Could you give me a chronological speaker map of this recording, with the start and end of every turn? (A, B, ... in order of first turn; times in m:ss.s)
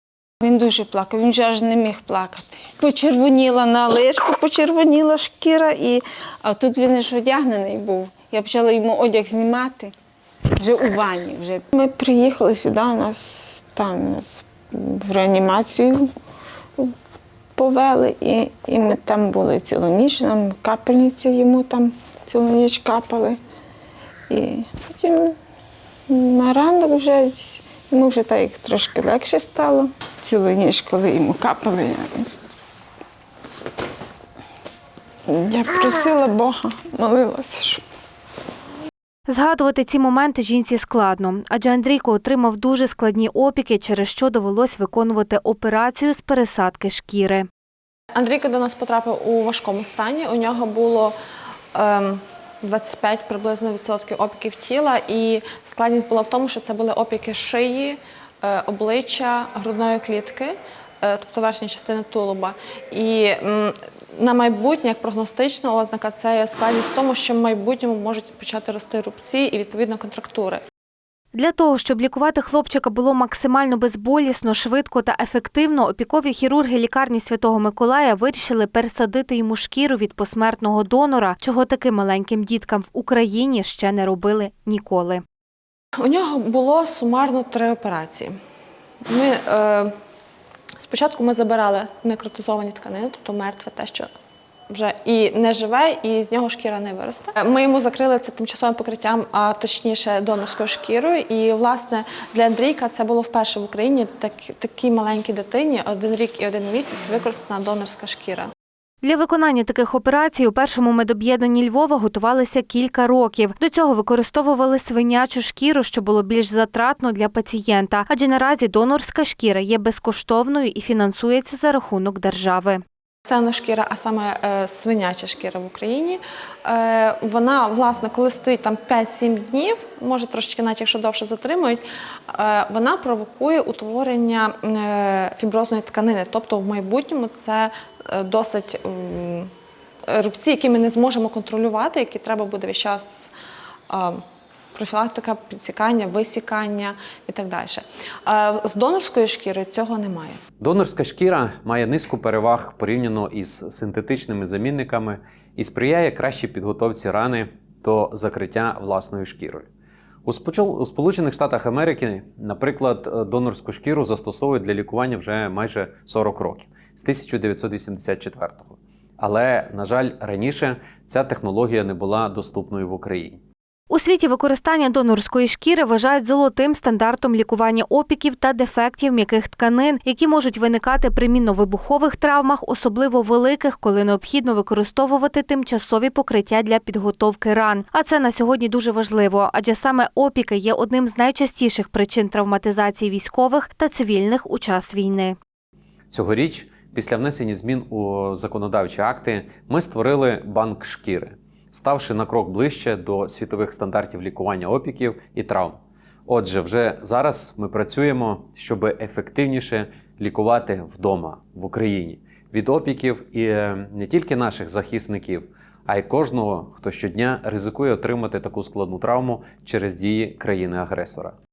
0:00.4-0:09.9 A
0:10.6-0:16.1 A
0:17.6-0:23.4 A
0:24.3-0:25.4 A
0:26.1-0:32.3 A
0:35.3-0:37.8 A
0:39.3-0:47.5 B
0:48.2-0:51.1 C
0:51.7-1:10.6 C
1:11.3-1:25.2 B
1:26.0-1:28.3 C
1:29.1-1:29.9 C
1:30.8-1:34.1 C
1:34.7-1:48.5 C
1:49.0-2:02.8 B
2:03.3-2:19.5 C
2:20.1-2:23.3 C
2:23.9-2:24.2 C
2:24.7-2:30.4 C
2:30.6-2:39.7 D
2:40.2-2:53.4 D
2:53.9-3:15.4 B
3:16.1-3:41.4 D